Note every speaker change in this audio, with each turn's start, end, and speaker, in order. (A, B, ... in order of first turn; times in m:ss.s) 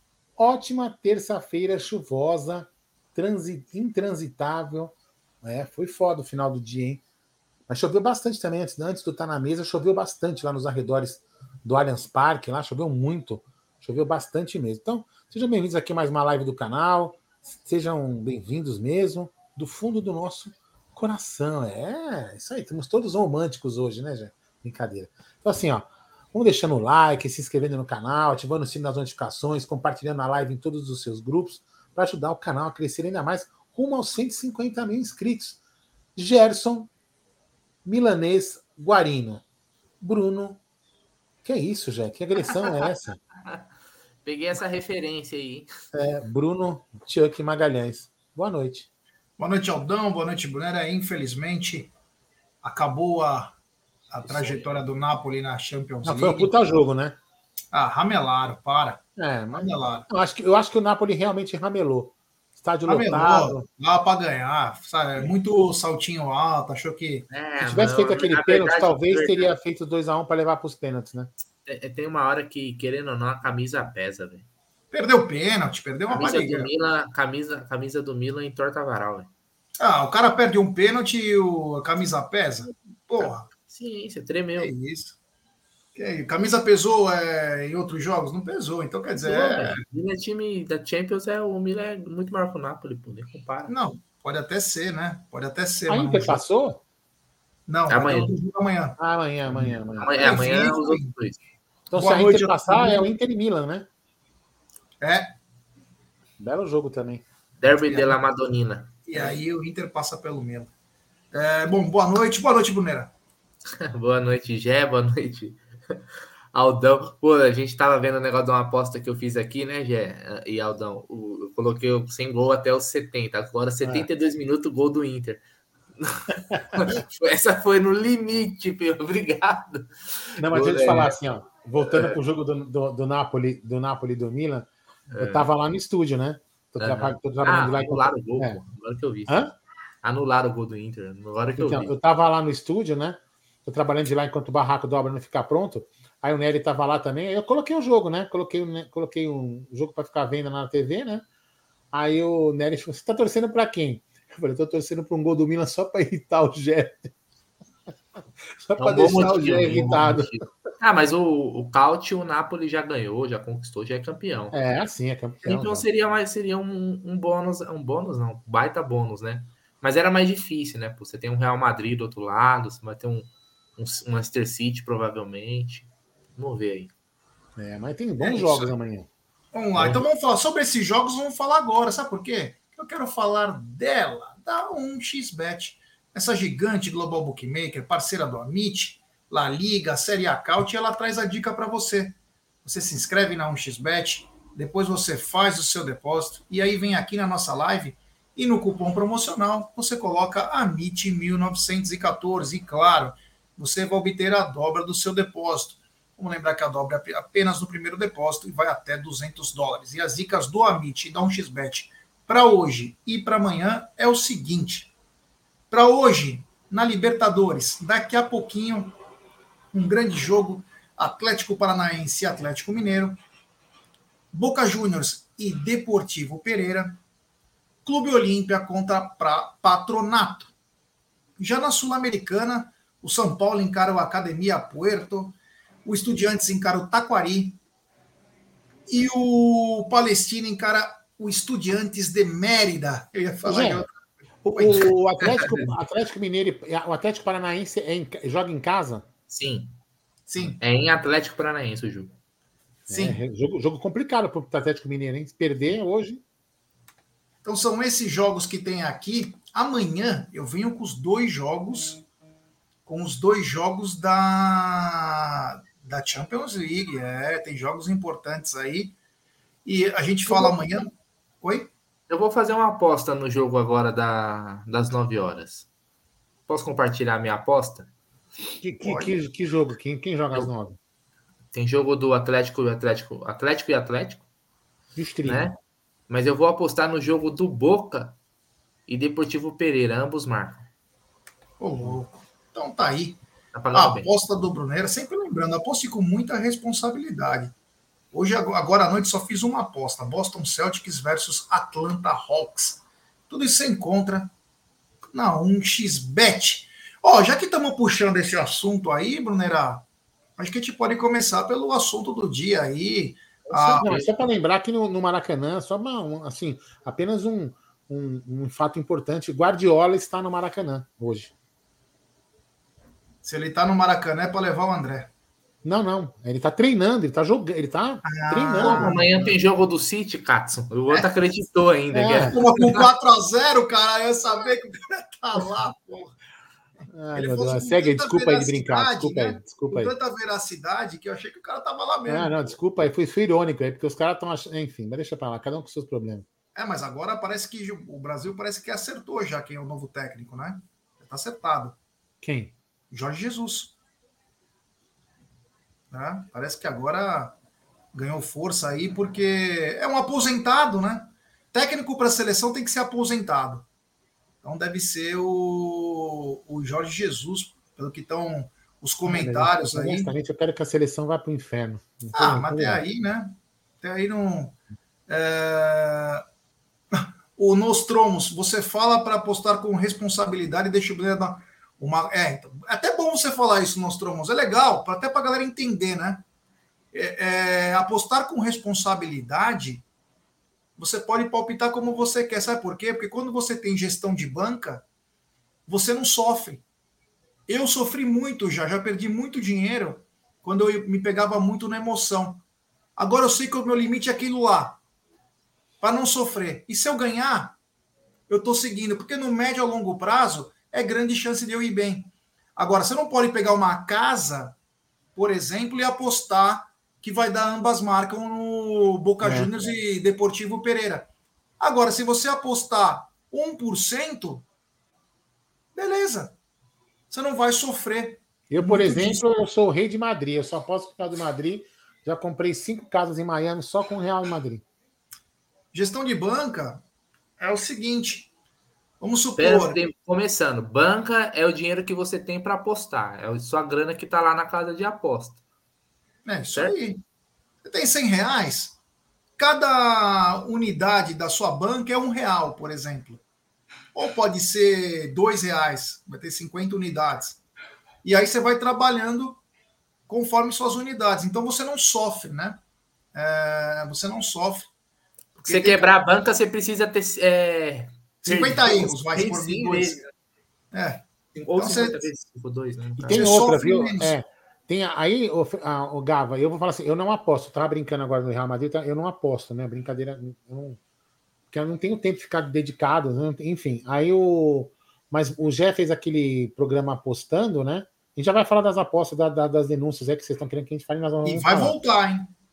0:00.4-0:07.0 A
0:07.7-0:35.6 A
0:36.2-0:36.9 A
0:37.8-0:39.4 A
0:40.0-0:40.6 A
0:41.4-0:43.2 A
0:44.2-0:45.7 B
0:45.9-0:48.9 A
0:49.4-0:51.9 C
0:52.6-0:53.5 C
0:54.1-0:56.6 C
0:54.3-0:54.6 B
0:56.0-0:57.2 A
0:57.7-0:59.0 C
0:59.2-1:03.6 A
0:59.6-1:00.1 C
1:02.9-1:07.3 C
1:07.3-1:09.5 B
1:07.6-1:11.3 A
1:11.7-1:14.5 B
1:14.9-1:16.7 C
1:16.1-1:19.3 B
1:19.8-1:23.5 C
1:23.6-1:24.7 B
1:24.6-1:25.2 C
1:25.9-1:29.8 C
1:29.2-1:33.7 B
1:33.7-1:36.4 C
1:35.9-1:36.8 A
1:37.7-1:39.0 C
1:37.9-1:38.3 B
1:39.0-1:40.2 A
1:40.0-1:41.4 B
1:40.2-1:41.1 C
1:41.9-1:43.9 A
1:41.9-1:43.0 C
1:45.0-1:45.3 C
1:46.4-1:47.2 A
1:47.6-1:49.4 B
1:47.9-1:48.2 C
1:49.1-1:50.7 C
1:51.3-1:53.1 C
1:53.8-1:56.0 B
1:56.5-2:05.4 B
2:06.0-2:11.2 B
2:10.4-2:18.6 A
2:11.8-2:12.2 B
2:15.1-2:15.5 B
2:16.8-2:19.5 B
2:19.3-2:19.5 A
2:20.0-2:21.9 B
2:21.6-2:31.2 A
2:31.9-2:37.1 A
2:38.5-2:40.4 A
2:38.8-2:44.6 B
2:44.5-2:45.8 A
2:45.4-2:56.9 B
2:57.6-2:59.1 A
2:58.2-2:58.8 C
2:59.5-3:34.9 C
2:59.8-3:00.0 B
3:35.7-3:38.9 C
3:39.7-3:43.2 C
3:44.3-3:47.0 C
3:47.8-3:50.5 C
3:51.4-3:57.6 C
3:58.9-4:05.5 C
4:03.4-4:03.8 A
4:04.4-4:09.0 A
4:05.3-4:05.6 B
4:09.3-4:09.8 B
4:10.3-4:10.6 C
4:10.6-4:12.2 B
4:12.9-4:16.2 A
4:12.9-4:13.2 C
4:17.4-4:22.0 C
4:22.9-4:28.9 C
4:29.6-4:30.9 C
4:31.4-4:31.7 C
4:32.1-4:35.7 B
4:36.5-4:37.9 B
4:38.6-4:40.8 A
4:38.8-4:39.1 C
4:41.5-4:44.2 B
4:44.9-4:45.5 A
4:45.2-4:45.6 B
4:46.1-4:48.2 B
4:48.9-4:50.7 B
4:51.6-4:53.2 C
4:53.5-4:54.1 B
4:53.7-4:57.5 C
4:58.1-5:04.3 C
5:05.1-5:09.8 C
5:10.4-5:13.9 C
5:13.5-5:14.2 B
5:13.6-5:21.3 A
5:23.2-5:25.1 C
5:25.6-5:29.3 A
5:28.0-5:29.2 C
5:28.6-5:32.8 B
5:31.9-5:32.4 A
5:32.3-5:36.2 C
5:36.9-5:39.9 A
5:37.1-5:42.5 C
5:42.1-5:46.3 A
5:46.6-5:51.8 C
5:52.2-5:52.5 A
5:52.9-5:53.7 C
5:55.9-5:57.4 C
5:57.9-6:03.7 C
6:04.4-6:10.1 C
6:09.1-6:12.8 A
6:12.1-6:14.6 C
6:15.1-6:16.2 C
6:16.9-6:26.2 C
6:26.9-6:29.8 C
6:30.8-6:34.8 C
6:35.7-6:36.6 C
6:37.5-6:42.4 C
6:43.0-6:44.8 C
6:45.8-6:47.6 C
6:48.3-6:54.6 C
6:55.2-7:01.1 C
6:59.2-6:59.5 A
7:01.6-7:04.4 C
7:05.8-7:06.4 C
7:07.1-7:09.2 C
7:08.5-7:14.6 A
7:15.7-7:16.8 C
7:17.4-7:18.3 C
7:19.0-7:19.8 C
7:19.4-7:25.4 B
7:26.2-7:27.0 C
7:27.6-7:28.8 C
7:29.4-7:33.2 C
7:33.9-7:37.4 C
7:38.0-7:39.4 C
7:40.1-7:42.6 C
7:43.1-7:44.7 C
7:45.4-7:50.1 B
7:45.4-7:45.9 C
7:48.2-7:50.0 C
7:50.7-7:51.0 C
7:51.3-7:53.2 B
7:51.6-7:52.0 C
7:53.0-8:00.8 A
7:53.1-7:54.1 C
8:01.5-8:11.8 A
8:11.2-8:12.3 C